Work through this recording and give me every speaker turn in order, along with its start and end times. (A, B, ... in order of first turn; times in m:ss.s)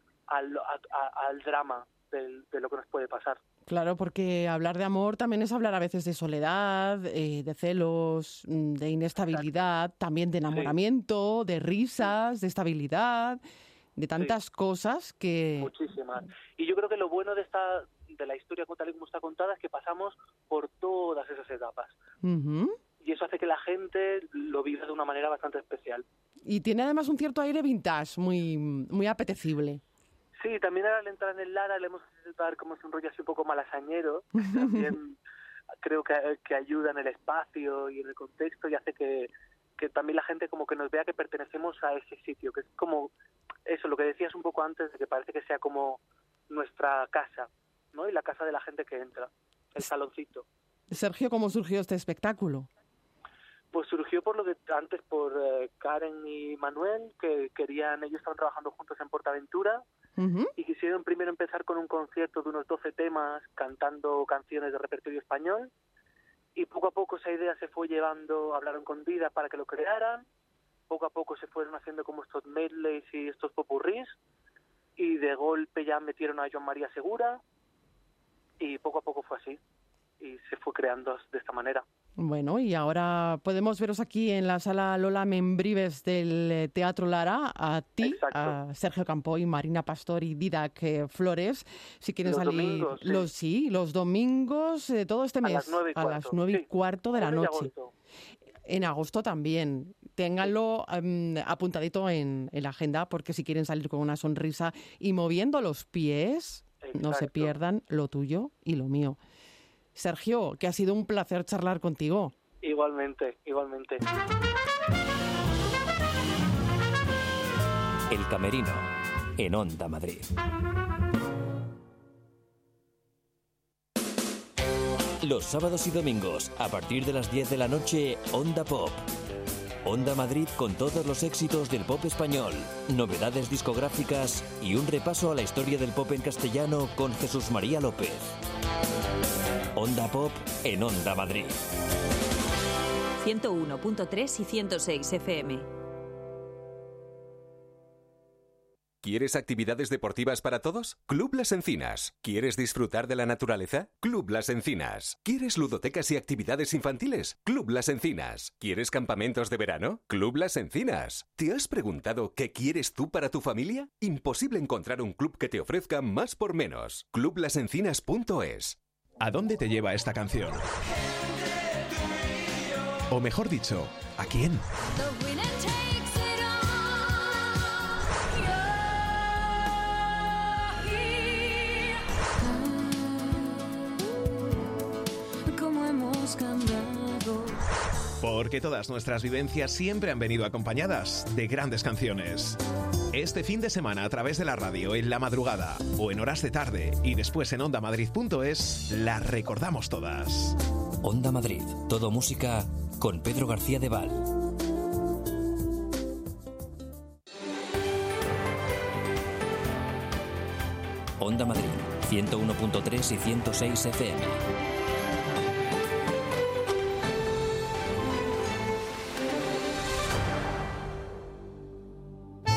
0:00.3-0:03.4 A
0:03.7-0:13.4 B
0:14.0-0:15.7 B
0:15.6-0:22.0 A
0:22.2-0:22.8 B
0:23.0-0:26.0 A
0:26.4-0:29.8 B
0:30.4-0:35.2 A
0:34.5-0:34.9 B
0:35.8-0:43.1 A
0:43.7-0:50.4 A
0:50.9-0:52.7 B
0:53.7-0:59.8 A
1:00.2-1:00.5 B
1:00.6-1:05.7 A
1:06.6-1:10.3 A
1:10.9-1:14.2 A
1:15.0-1:17.4 A
1:18.6-1:19.6 A
1:20.2-1:21.8 A
1:22.2-1:37.7 B
1:28.0-1:28.6 A
1:32.2-1:33.3 A
1:35.4-1:37.9 A
1:38.7-1:49.2 B
1:46.8-1:47.5 A
1:50.0-1:52.3 B
1:52.6-1:54.0 A
1:58.1-2:00.3 C
2:05.2-2:09.1 C
2:09.8-2:18.4 C
2:19.7-2:21.6 C
2:23.2-2:25.6 D
2:29.0-2:48.8 E
2:49.2-2:50.6 F
2:53.1-2:54.6 F
2:55.0-2:57.7 G
2:58.4-2:58.7 G
3:00.7-3:03.8 G
3:05.5-3:07.6 G
3:08.2-3:12.6 F
3:13.1-3:20.6 F
3:21.0-3:24.3 C
3:31.2-3:34.4 C